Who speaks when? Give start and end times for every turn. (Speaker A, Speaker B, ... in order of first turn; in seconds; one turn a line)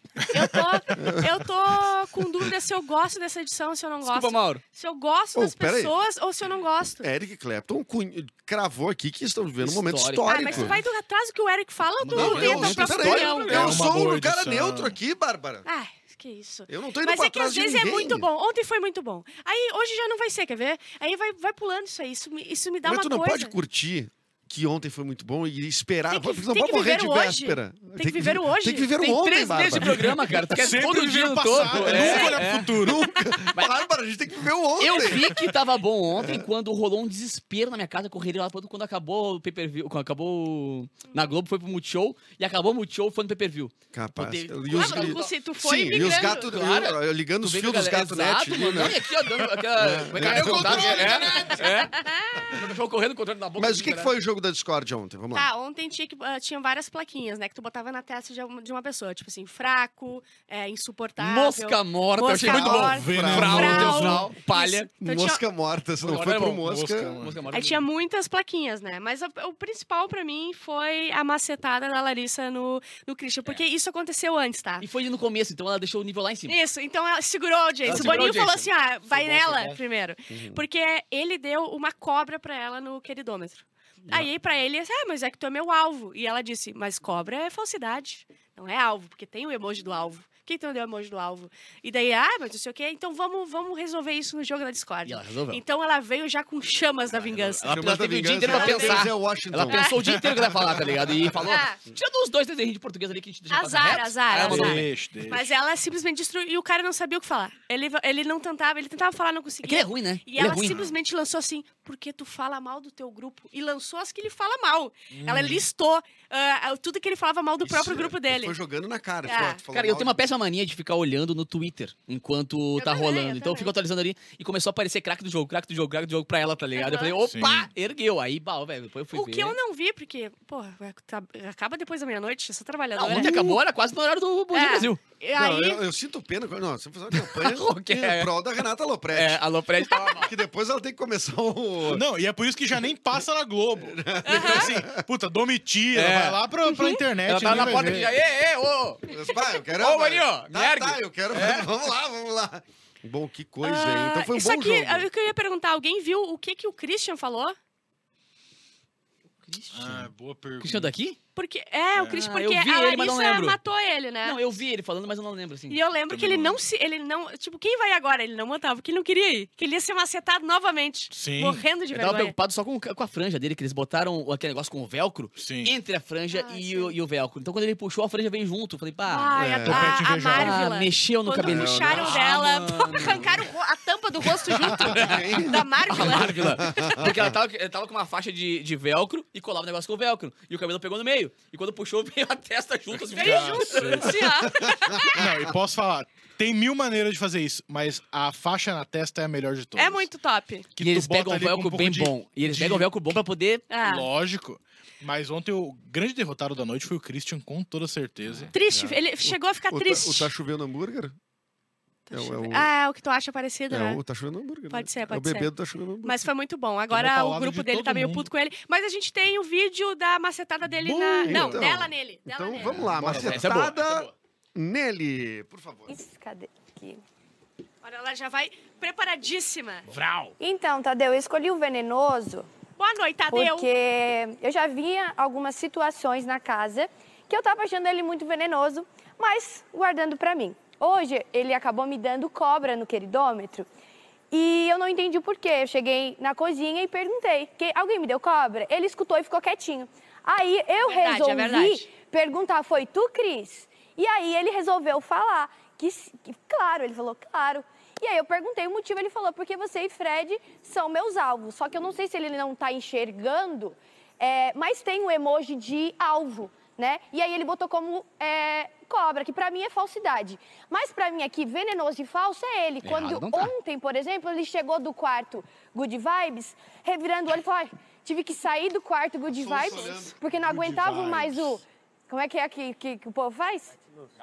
Speaker A: 0.3-7.1
Speaker B: 0.9-1.4
Speaker C: 4.0-4.6
Speaker B: 5.3-6.0
Speaker B: 7.0-10.8
Speaker C: 9.6-10.8
Speaker A: 10.3-13.8
Speaker C: 12.0-13.8
Speaker B: 12.1-15.7
Speaker D: 13.5-14.9
Speaker A: 15.7-23.6
Speaker B: 16.7-18.3
Speaker B: 22.8-30.1
Speaker A: 26.1-29.8
Speaker C: 29.0-32.7
Speaker D: 29.8-33.0
Speaker A: 31.7-32.4
Speaker B: 32.8-35.4
Speaker C: 33.5-33.8
Speaker C: 34.8-45.3
Speaker B: 36.2-36.5
Speaker B: 43.9-49.0
Speaker A: 44.7-46.5
Speaker C: 45.9-54.1
Speaker B: 49.8-51.1
Speaker D: 49.8-51.5
Speaker A: 51.0-52.6
Speaker B: 53.6-55.5
Speaker A: 55.3-65.4
Speaker C: 61.2-64.9
Speaker B: 62.4-64.1
Speaker D: 62.9-64.3
Speaker B: 65.0-67.2
Speaker C: 66.0-67.9
Speaker D: 66.6-67.4
Speaker A: 67.5-74.9
Speaker C: 74.8-76.6
Speaker A: 76.5-97.8
Speaker C: 77.8-79.8
Speaker B: 80.3-80.6
Speaker C: 95.0-95.6
Speaker C: 97.2-104.9
Speaker B: 97.7-99.9
Speaker A: 98.5-99.0
Speaker A: 99.7-100.1
Speaker D: 100.2-101.0
Speaker A: 101.5-101.8
Speaker A: 103.5-118.6
Speaker D: 104.4-105.5
Speaker C: 109.6-110.8
Speaker D: 115.1-115.7
Speaker B: 117.6-120.2
Speaker A: 119.3-119.6
Speaker C: 119.7-129.6
Speaker A: 122.8-123.7
Speaker A: 126.8-127.1
Speaker D: 127.2-127.7
Speaker A: 129.1-133.6
Speaker C: 133.0-135.0
Speaker A: 134.5-135.8
Speaker B: 135.3-142.0
Speaker C: 137.1-138.3
Speaker C: 139.1-140.3
Speaker D: 141.9-148.2
Speaker B: 143.8-145.1
Speaker A: 144.3-144.7
Speaker C: 145.9-146.4
Speaker A: 146.7-147.0
Speaker C: 147.2-149.1
Speaker B: 149.1-155.1
Speaker C: 149.8-151.7
Speaker A: 153.6-157.6
Speaker C: 159.4-161.2
Speaker D: 159.7-160.9
Speaker A: 161.3-164.4
Speaker C: 162.1-163.6
Speaker C: 164.2-165.8
Speaker A: 165.7-172.3
Speaker D: 166.1-166.6
Speaker D: 171.1-171.7
Speaker C: 171.9-179.3
Speaker D: 175.4-175.7
Speaker A: 176.3-176.9
Speaker A: 179.1-186.9
Speaker B: 179.3-180.0
Speaker D: 179.6-180.6
Speaker C: 180.3-183.3
Speaker B: 181.4-182.2
Speaker C: 184.5-194.2
Speaker B: 184.8-187.3
Speaker D: 192.9-194.2
Speaker A: 193.2-195.2
Speaker B: 194.6-195.5
Speaker D: 195.2-200.1
Speaker A: 199.8-200.7
Speaker D: 200.8-202.9
Speaker C: 200.8-203.7
Speaker A: 203.7-204.1
Speaker D: 203.8-208.5
Speaker A: 208.5-210.3
Speaker B: 208.7-211.2
Speaker A: 212.1-214.0
Speaker B: 212.1-212.7
Speaker B: 213.7-216.3
Speaker A: 214.7-215.5
Speaker A: 216.0-222.8
Speaker D: 216.9-218.3
Speaker D: 220.7-221.7
Speaker B: 221.3-225.9
Speaker C: 222.6-224.1
Speaker D: 222.7-223.7
Speaker E: 225.9-227.0
Speaker A: 227.8-229.9
Speaker C: 229.9-230.3
Speaker E: 230.4-232.5
Speaker A: 232.8-233.7
Speaker E: 233.3-243.7
Speaker E: 244.3-283.7
Speaker A: 250.8-251.9
Speaker C: 272.8-273.5
Speaker B: 279.3-281.6